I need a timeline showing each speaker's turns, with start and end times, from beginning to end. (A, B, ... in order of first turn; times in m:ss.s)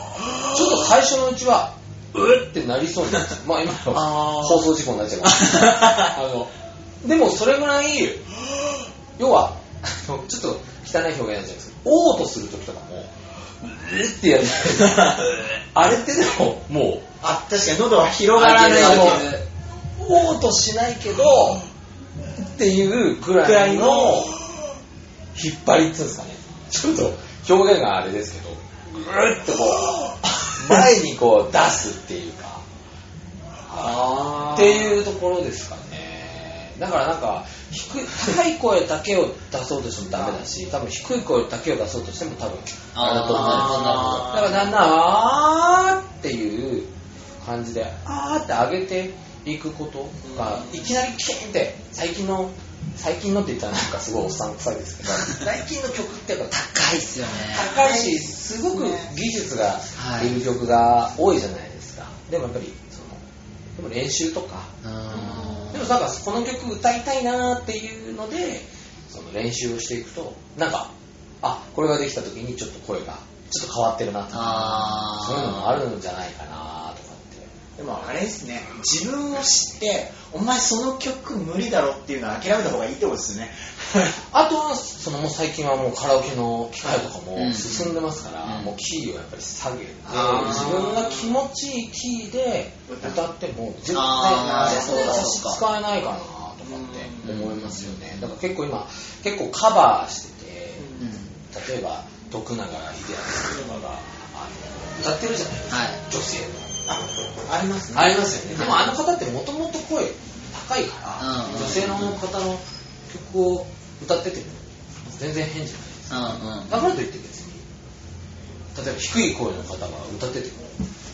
0:00.5-0:06.5 A
0:04.0-0:04.4 B
0:07.0-0:08.3 A
0:09.2-0:17.0 A
0:17.2-0:19.3 B
0:18.3-0:19.4 C
0:18.7-0:19.2 A
0:20.0-0:21.6 A
0:22.3-0:24.4 A
0:23.4-0:24.3 B
0:25.3-0:32.6 A
0:33.7-0:56.5 A
0:33.8-0:35.0 B
0:42.9-0:44.4 C
0:43.3-0:44.4 B
0:50.2-0:50.8 B
0:56.5-0:57.7 C
0:57.4-1:03.2 A
0:57.5-0:59.1 B
1:00.0-1:00.4 C
1:03.7-1:10.9 A
1:04.8-1:05.8 C
1:05.1-1:05.7 B
1:11.4-1:17.5 A
1:14.3-1:15.8 C
1:17.8-1:24.2 B
1:24.3-1:40.8 A
1:27.3-1:28.7 C
1:30.0-1:31.3 B
1:30.4-1:30.8 C
1:32.9-1:33.2 B
1:33.9-1:35.6 C
1:34.3-1:35.3 B
1:36.7-1:37.3 B
1:37.2-1:38.3 C
1:40.8-1:41.1 B
1:41.0-1:41.2 C
1:41.5-1:46.7 A
1:45.7-1:46.0 C
1:46.9-1:48.7 B
1:47.9-1:57.6 A
1:48.6-1:48.8 C
1:51.2-1:52.2 C
1:56.1-1:56.8 C
1:58.7-2:00.8 A